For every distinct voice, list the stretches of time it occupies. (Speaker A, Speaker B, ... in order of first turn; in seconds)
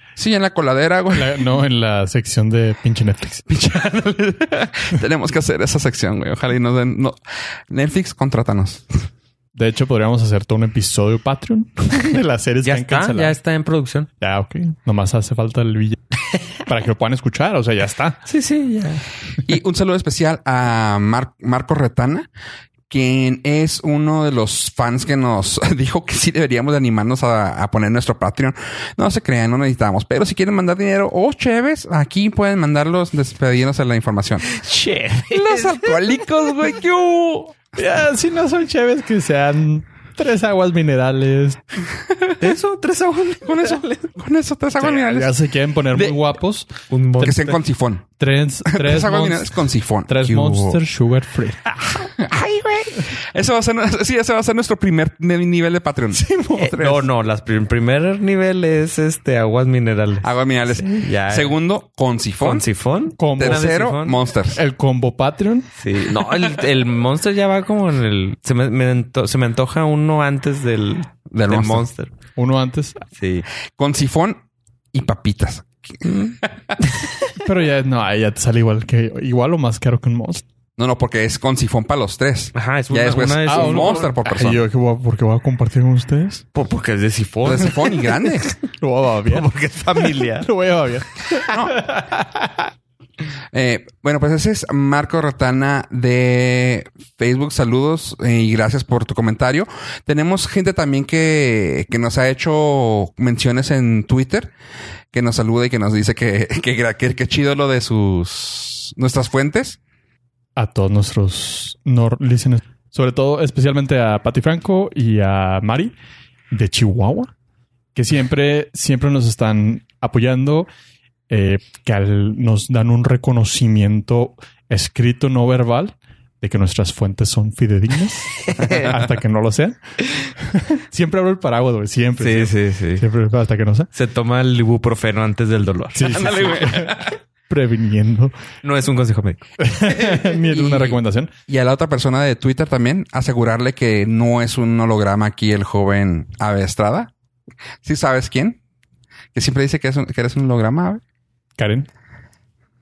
Speaker A: 0.1-1.5, 3.5-7.2, 7.7-8.8, 19.4-22.3, 22.9-34.5, 35.3-37.6, 43.4-45.3, 45.9-46.2, 47.2-48.0, 48.6-50.8, 52.1-57.1, 60.2-62.6, 63.4-64.6, 71.3-71.9, 73.8-74.4, 74.9-75.8, 80.8-84.6, 87.4-88.5, 91.4-91.8, 93.5-104.5, 105.1-109.8, 136.1-137.2, 141.5-147.1, 147.8-148.6, 149.3-151.0
Speaker B: 1.1-3.5, 9.5-13.4, 14.2-18.2, 37.7-41.9, 44.8-46.7, 48.2-49.6, 50.1-52.1, 56.1-56.8, 63.2-63.7, 64.5-65.7, 72.3-73.0, 77.3-80.4, 83.4-86.4, 88.8-92.7, 110.5-115.9, 116.5-117.3, 117.9-120.7, 121.3-133.9, 135.9-138.3, 139.6-141.3, 151.6-151.9
Speaker C: 12.6-14.1, 18.2-19.0, 34.4-36.2, 42.4-44.1, 46.9-47.6, 56.6-60.2, 60.8-61.6, 62.4-64.2, 65.8-72.1, 73.1-73.5, 76.0-77.2, 82.5-84.1, 86.5-88.4, 89.2-90.5, 128.5-128.9, 132.2-133.0, 133.9-136.7, 138.6-141.0